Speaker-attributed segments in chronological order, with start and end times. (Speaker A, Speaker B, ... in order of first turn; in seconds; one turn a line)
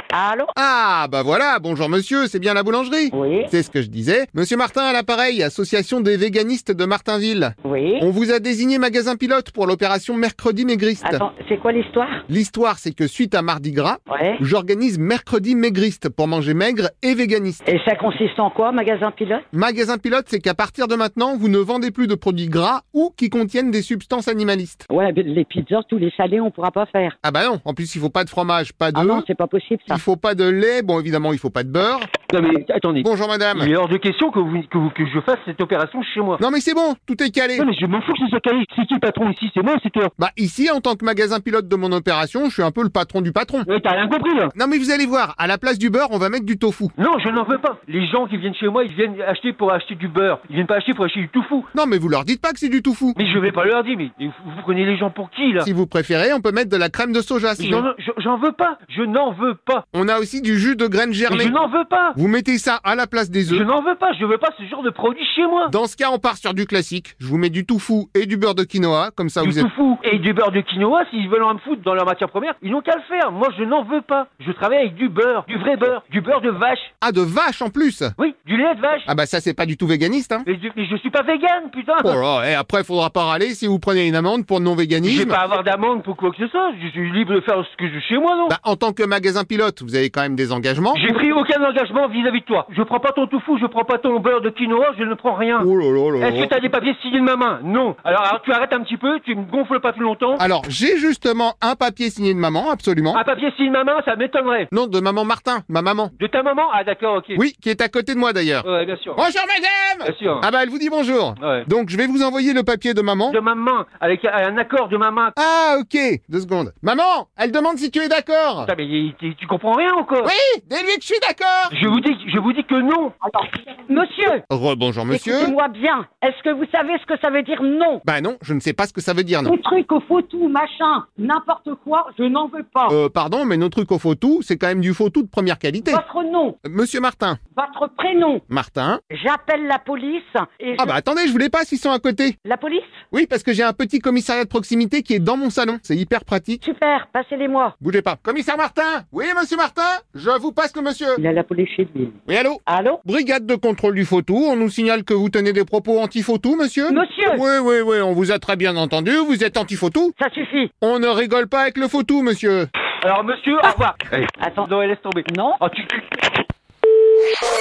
Speaker A: 0.1-0.5
Speaker B: 0.6-11.2
Speaker A: 3.1-3.5
Speaker A: 7.7-8.1
Speaker A: 11.0-12.2
Speaker B: 12.3-17.6
Speaker A: 14.1-14.4
Speaker A: 17.7-19.4
Speaker B: 19.5-24.9
Speaker A: 24.9-27.1
Speaker B: 27.2-29.3
Speaker A: 28.9-30.0
Speaker B: 29.9-32.1
Speaker C: 32.3-36.4
Speaker B: 33.0-33.7
Speaker B: 36.4-37.7
Speaker C: 37.6-40.1
Speaker B: 40.2-43.7
Speaker C: 43.7-44.5
Speaker B: 44.5-46.9
Speaker C: 47.0-51.7
Speaker B: 51.7-53.2
Speaker C: 53.2-55.7
Speaker B: 55.6-57.9
Speaker C: 57.6-59.8
Speaker B: 59.9-61.5
Speaker C: 61.3-62.2
Speaker B: 62.2-63.7
Speaker C: 63.5-65.7
Speaker B: 65.7-69.7
Speaker C: 69.4-76.9
Speaker B: 77.0-78.2
Speaker C: 78.2-79.1
Speaker B: 79.1-80.5
Speaker C: 80.5-82.2
Speaker B: 82.0-85.4
Speaker C: 85.0-88.5
Speaker B: 88.5-91.0
Speaker C: 90.9-95.7
Speaker B: 95.6-96.5
Speaker C: 96.2-100.5
Speaker B: 100.4-103.2
Speaker C: 103.1-104.7
Speaker B: 104.7-106.1
Speaker C: 106.2-107.4
Speaker B: 107.3-113.4
Speaker C: 108.6-109.2
Speaker C: 110.0-110.5
Speaker C: 111.4-111.7
Speaker C: 113.3-115.4
Speaker B: 115.4-118.7
Speaker C: 118.6-120.3
Speaker B: 120.2-121.7
Speaker C: 121.7-123.2
Speaker A: 123.2-124.4
Speaker B: 124.5-125.5
Speaker A: 125.1-128.0
Speaker B: 128.1-129.5
Speaker A: 129.4-133.0
Speaker B: 132.9-136.0
Speaker A: 135.8-136.6
Speaker B: 136.7-137.4
Speaker A: 137.6-138.4
Speaker B: 138.5-139.0
Speaker A: 139.1-140.9
Speaker B: 140.8-142.4
Speaker A: 142.4-142.9
Speaker B: 143.1-146.6
Speaker A: 146.6-147.7
Speaker B: 147.8-151.2
Speaker A: 151.2-153.0
Speaker B: 152.3-160.2
Speaker A: 156.9-157.4
Speaker A: 160.2-160.7
Speaker B: 160.8-162.7
Speaker C: 163.0-166.1
Speaker A: 164.4-164.7
Speaker A: 165.3-165.6